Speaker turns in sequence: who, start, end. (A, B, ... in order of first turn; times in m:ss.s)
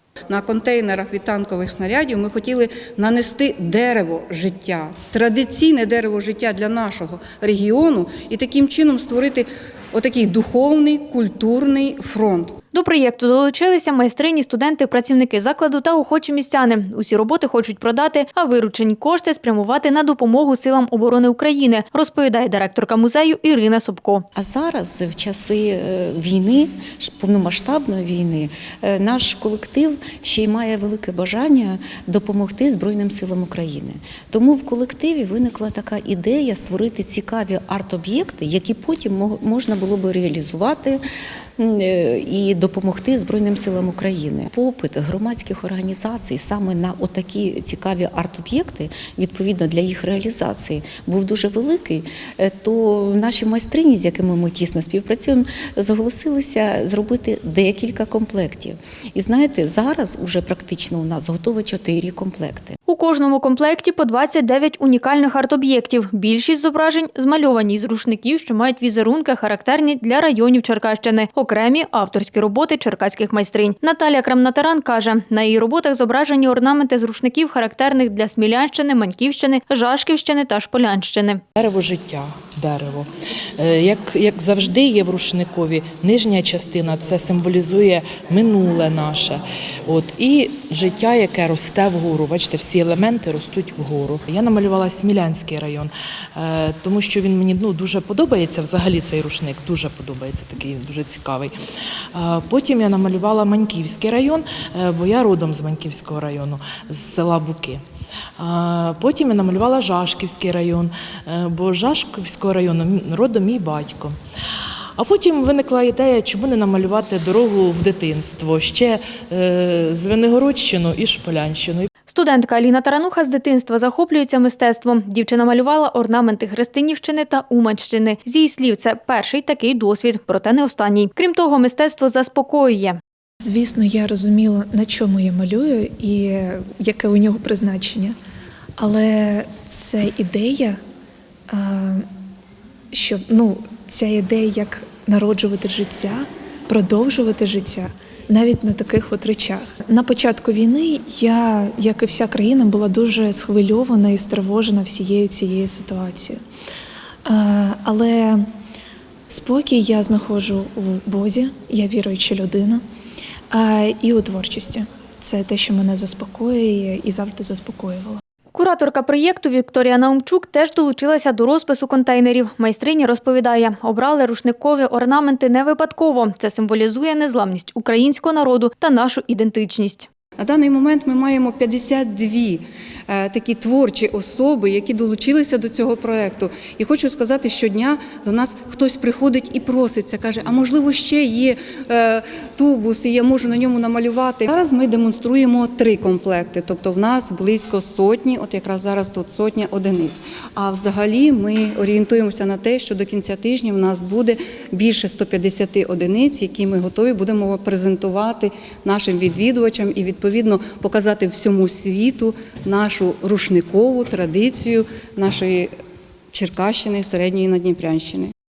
0:00.3-0:12.5 A
0:12.7-0:24.2 B
0:24.4-0:41.0 C
0:41.6-1:02.8 C
1:02.9-1:21.4 B
1:21.6-1:23.1 D
1:23.6-1:41.5 D
1:42.2-1:47.8 D
1:48.4-1:54.2 D
1:55.0-2:01.9 D
2:02.1-2:13.0 B
2:13.4-2:18.2 E
2:18.8-2:20.8 E
2:21.5-2:22.0 E
2:22.9-2:36.4 E
2:37.2-2:38.4 E
2:39.3-2:42.8 E
2:43.5-2:48.2 E
2:48.5-3:00.1 B
3:00.4-3:35.7 A
3:36.3-3:38.3 A